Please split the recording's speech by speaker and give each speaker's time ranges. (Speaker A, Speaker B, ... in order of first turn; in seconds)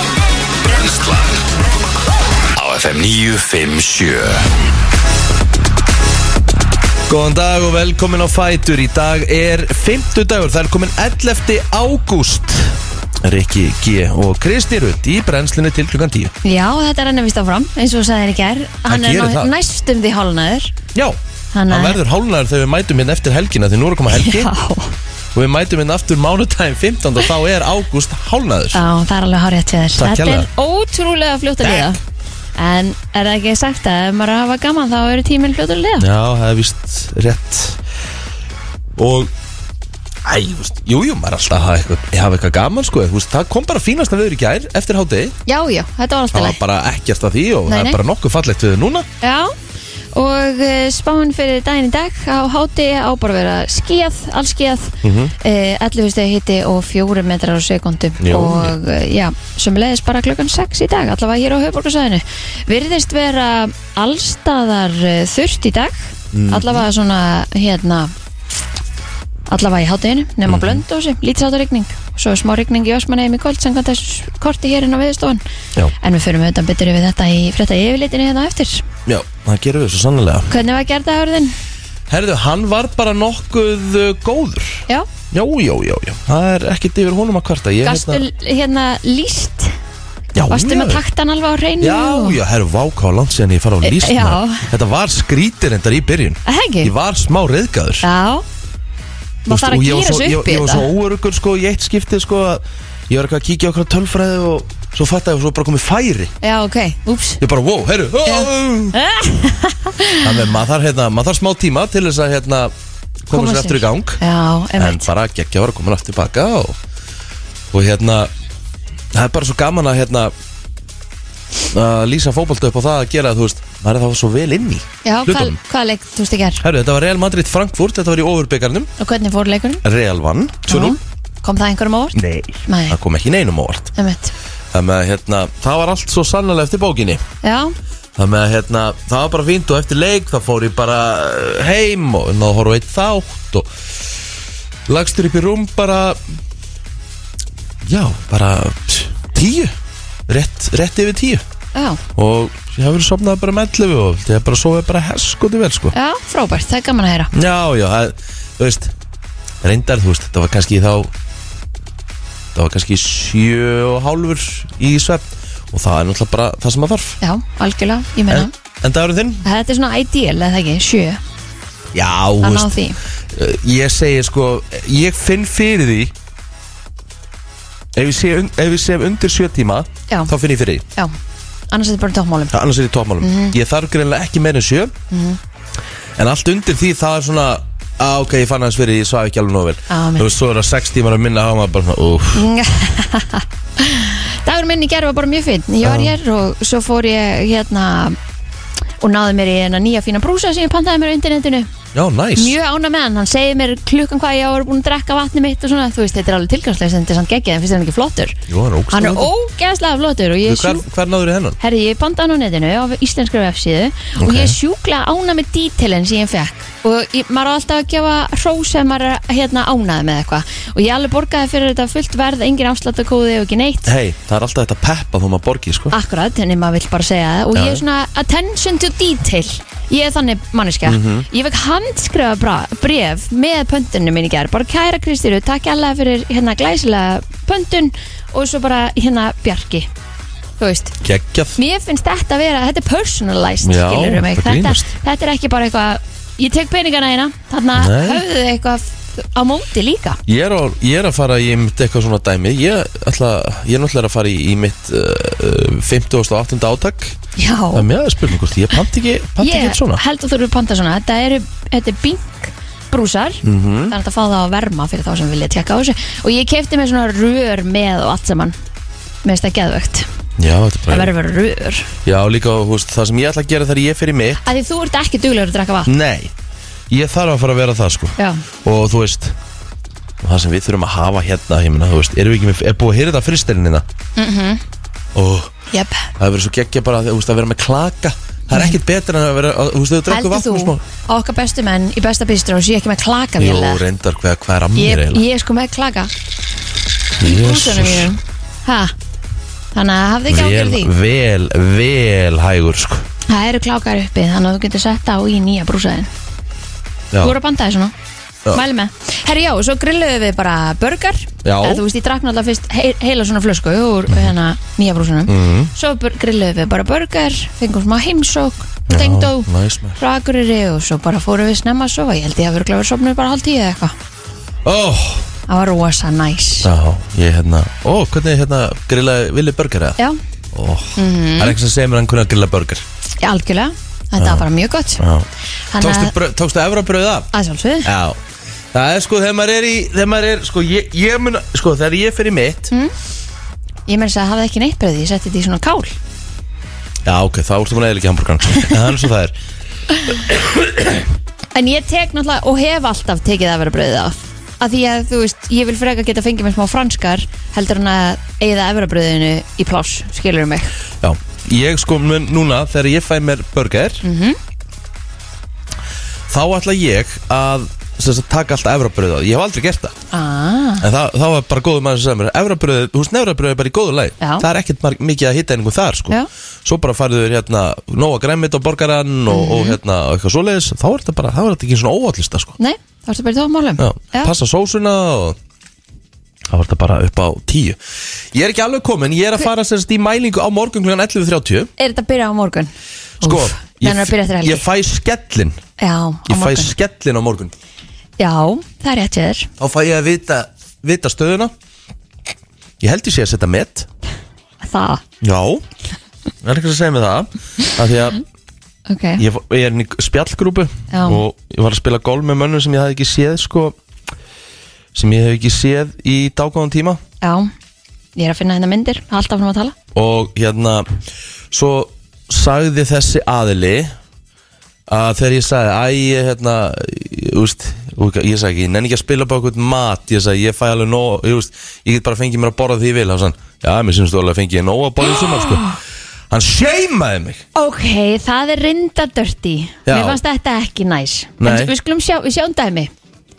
Speaker A: 0.6-1.4, 2.6-4.5
Speaker B: 7.1-16.3, 18.9-19.5, 20.9-24.5, 25.3-28.8, 30.0-30.5, 31.6-31.9, 36.0-37.8, 39.0-39.3, 40.2-45.4, 46.3-49.1, 55.0-55.3, 58.2-58.8, 66.3-66.8, 70.5-70.8, 79.1-80.5, 82.1-88.2, 90.3-91.0, 91.8-98.1, 99.5-106.3, 107.4-109.0, 110.2-112.7, 113.3-114.2, 114.8-116.8, 117.7-118.3, 119.1-120.3, 121.7-125.6, 126.6-128.9, 129.8-131.0, 132.2-133.9, 134.7-137.2, 138.2-143.7, 144.9-146.2, 147.8-149.8, 150.3-151.4, 152.2-155.9, 157.3-158.9, 159.6-161.1, 162.5-167.2, 168.3-169.4, 171.9-172.7, 173.3-176.1, 178.0-180.8, 182.5-184.9, 186.2-192.5, 195.8-196.2, 201.9-202.6, 208.5-209.3, 210.4-211.6, 214.2-214.6, 223.9-225.9, 227.5-227.8, 230.8-231.3, 241.0-241.6, 243.6-244.9, 247.8-248.2, 250.3-257.2, 257.7-260.0, 263.4-263.9, 270.4-271.1, 272.1-274.4, 275.9-276.3, 276.9-279.4, 280.2-283.9, 285.1-285.5, 286.2-290.8, 293.4-295.2, 297.2-298.1, 300.3-303.1, 311.4-311.8, 315.3-315.7, 318.9-320.0, 324.6-325.3, 326.6-330.0, 330.5-332.9, 334.2-334.5, 335.0-337.3, 337.8-338.2, 338.7-342.7, 347.1-349.4, 350.3-351.0, 361.0-364.1, 366.3-369.9, 370.8-382.6, 383.8-385.4, 386.5-387.8, 388.3-391.7, 393.2-395.6, 396.3-397.5, 399.6-401.5, 402.8-403.9, 405.2-405.6, 406.4-408.2, 409.2-413.8, 414.9-417.0, 419.9-420.9, 421.5-423.9, 424.9-435.7, 436.3-437.4, 439.9-440.2, 441.4-441.7
Speaker C: 16.4-20.7, 21.5-22.0, 24.1-24.9, 28.7-32.0, 32.6-36.1, 45.5-46.6, 47.7-48.0, 49.2-49.5, 50.1-68.1, 69.5-75.4, 76.0-78.8, 80.5-81.5, 87.8-89.7, 90.5-92.4, 93.8-94.7, 96.5-96.9, 98.0-98.5, 99.5-100.9, 106.4-107.4, 108.2-110.3, 113.3-115.1, 125.0-126.6, 129.0-129.8, 130.7-133.0, 134.0-134.3, 137.4-137.7, 151.7-152.0, 155.9-157.3, 167.2-168.5, 169.4-171.2, 172.4-173.0, 181.7-182.5, 183.2-183.6, 185.1-185.4, 189.9-190.3, 192.3-198.2, 199.0-201.7, 202.4-208.4, 208.9-210.8, 211.6-223.9, 225.9-239.9, 240.6-241.0, 241.6-250.2, 257.4-257.9, 259.4-268.6, 269.2-270.1, 270.9-271.9, 274.4-275.9, 278.2-278.4, 284.2-284.6, 285.7-286.1, 290.1-293.8, 294.8-296.1, 297.2-298.9, 299.7-300.9, 303.3-306.1, 307.2-307.9, 308.5-323.9, 325.5-326.7, 331.0-331.6, 333.2-335.0, 335.7-336.1, 337.3-337.9, 343.9-346.0, 351.6-360.7, 364.0-364.4, 370.1-370.9, 374.2-374.5, 379.3-379.8, 382.6-384.3, 391.8-392.7, 393.2-394.6, 395.8-396.7, 398.2-399.5, 404.6-405.0, 408.9-409.2, 410.9-411.2, 417.2-417.5, 418.2-419.8, 437.6-442.9